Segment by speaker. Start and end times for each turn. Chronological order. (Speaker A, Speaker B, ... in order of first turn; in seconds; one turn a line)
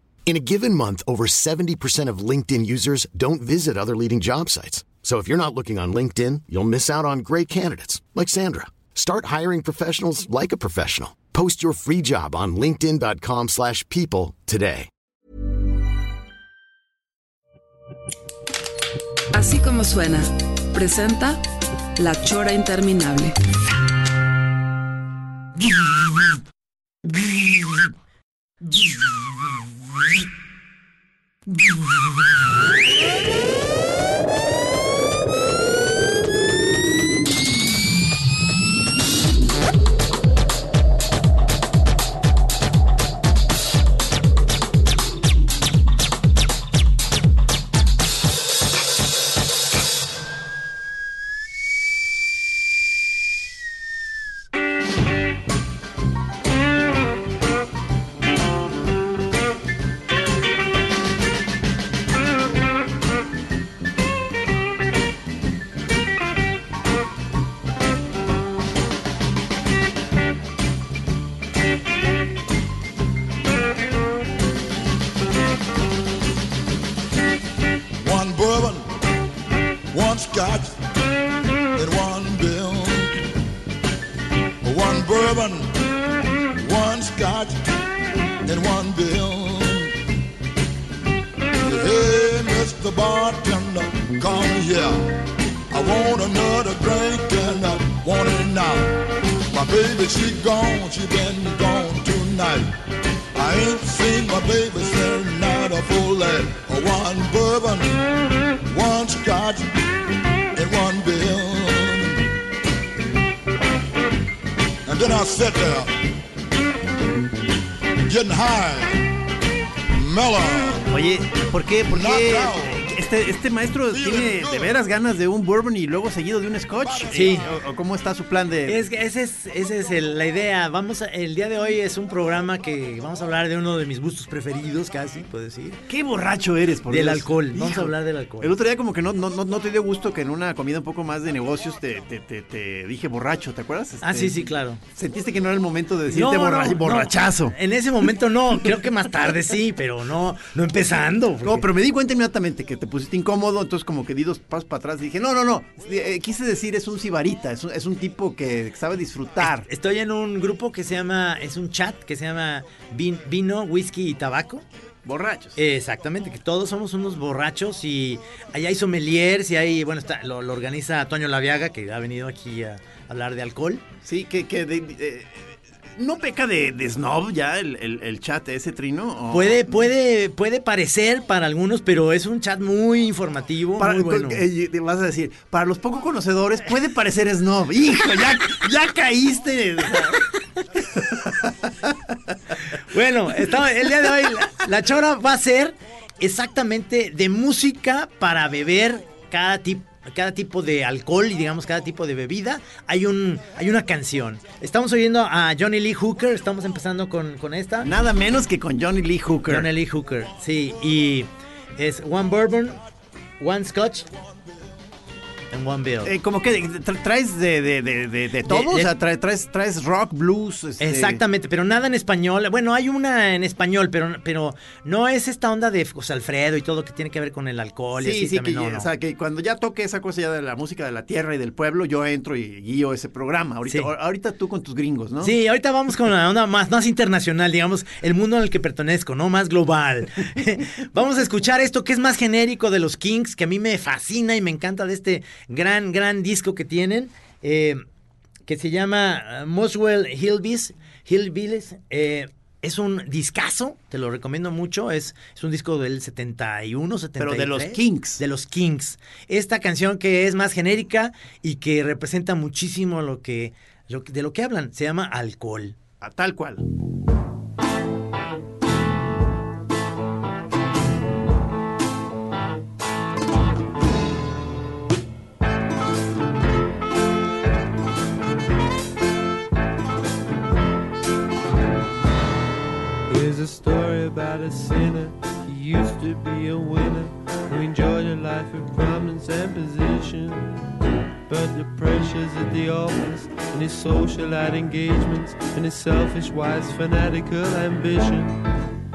Speaker A: 0.2-14.9
Speaker B: 19.3-21.4
Speaker B: 22.0-23.4
Speaker C: 78.0-78.8
Speaker C: 79.9-80.7
Speaker C: 81.7-83.2
Speaker C: 84.6-85.7
Speaker C: 86.5-87.6
Speaker C: 88.4-89.9
Speaker C: 91.6-95.1
Speaker C: 95.7-98.9
Speaker C: 99.5-102.7
Speaker C: 103.3-108.0
Speaker C: 108.6-109.7
Speaker C: 110.5-112.3
Speaker C: 114.9-115.9
Speaker C: 118.0-119.0
Speaker C: 119.9-120.9
Speaker D: 120.9-128.9
Speaker C: 121.8-122.8
Speaker C: 123.9-124.8
Speaker C: 126.8-127.3
Speaker E: 127.1-127.5
Speaker E: 128.7-135.8
Speaker D: 135.9-147.5
Speaker E: 136.9-138.5
Speaker E: 144.0-144.8
Speaker E: 146.1-151.7
Speaker D: 151.4-159.7
Speaker E: 159.4-164.6
Speaker D: 165.0-165.6
Speaker E: 165.6-173.8
Speaker D: 174.0-179.8
Speaker E: 179.3-184.4
Speaker D: 183.8-190.2
Speaker D: 190.9-192.1
Speaker E: 192.9-207.9
Speaker D: 207.8-209.7
Speaker E: 209.5-212.8
Speaker E: 213.4-214.1
Speaker E: 215.5-216.1
Speaker D: 216.0-221.2
Speaker E: 218.4-218.9
Speaker E: 220.8-228.9
Speaker D: 228.0-235.3
Speaker E: 235.2-247.8
Speaker E: 248.5-265.8
Speaker D: 257.2-258.2
Speaker D: 266.0-266.6
Speaker F: 283.1-290.6
Speaker F: 291.3-298.4